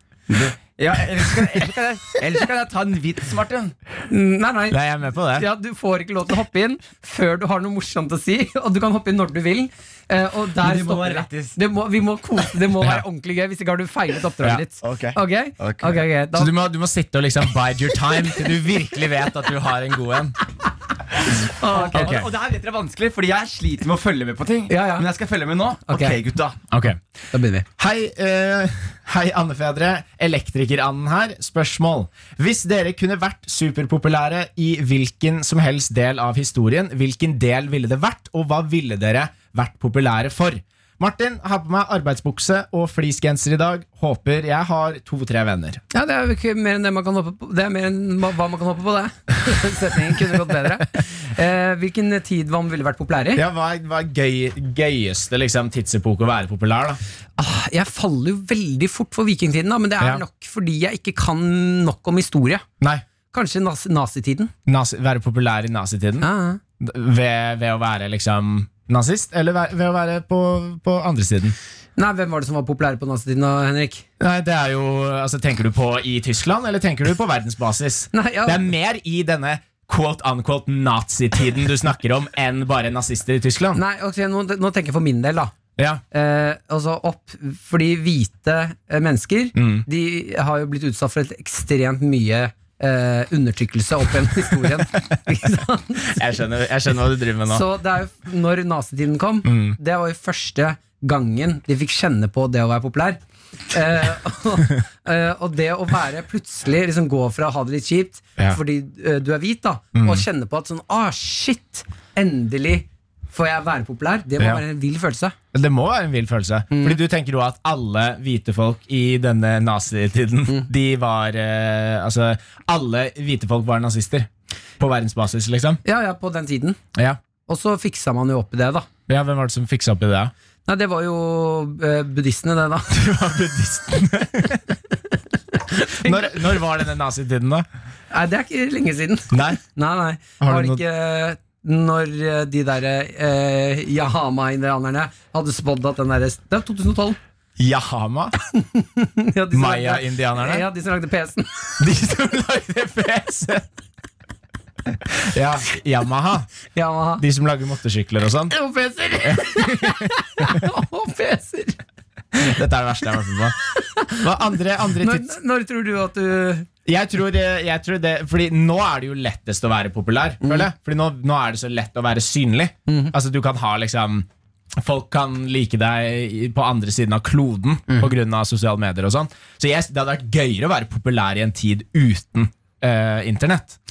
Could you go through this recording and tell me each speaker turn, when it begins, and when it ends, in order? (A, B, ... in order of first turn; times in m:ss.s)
0:00.3-0:03.7 A
0:04.1-0:16.5 B
0:04.7-0:05.5 C
0:10.6-0:11.6 A
0:14.4-0:15.2 C
0:15.6-0:16.0 A
0:16.4-0:20.4 C
0:21.6-0:22.2 B
0:21.8-0:22.3 C
0:21.8-0:26.6 A
0:24.7-0:25.1 B
0:25.9-0:26.2 B
0:26.7-0:27.0 C
0:27.3-0:27.6 B
0:27.8-0:45.8 C
0:45.9-0:53.4 B
0:53.4-0:57.0 C
0:57.4-1:02.6 B
1:03.3-1:04.5 B
1:04.6-1:06.3 C
1:06.2-1:06.6 B
1:06.8-1:11.6 C
1:12.0-1:14.0 B
1:14.2-1:23.8 C
1:18.1-1:18.6 B
1:23.7-1:25.5 B
1:25.8-1:26.0 C
1:26.1-1:36.2 B
1:29.6-1:29.8 C
1:36.1-1:37.6 C
1:37.5-1:55.4 B
1:39.4-1:39.8 C
1:49.9-1:50.2 C
1:55.5-2:05.8 C
1:56.7-1:57.0 B
2:05.8-2:06.8 B
2:06.9-2:07.2 C
2:07.5-2:08.9 B
2:09.1-2:10.3 C
2:10.6-2:12.9 B
2:12.9-2:14.6 C
2:15.7-2:16.4 B
2:16.0-2:17.6 C
2:18.1-2:27.2 B
2:19.3-2:19.6 C
2:20.4-2:20.8 C
2:27.6-2:28.3 C
2:28.6-2:31.8 B
2:29.5-2:30.6 C
2:31.8-2:33.6 C
2:35.1-2:36.5 C
2:36.7-2:37.2 B
2:37.2-2:38.5 C
2:38.5-2:41.8 B
2:39.2-2:40.7 C
2:42.3-2:45.4 C
2:45.0-2:46.7 B
2:46.8-2:54.3 C
2:50.4-2:50.7 B
2:52.9-2:53.1 B
2:54.8-3:03.8 C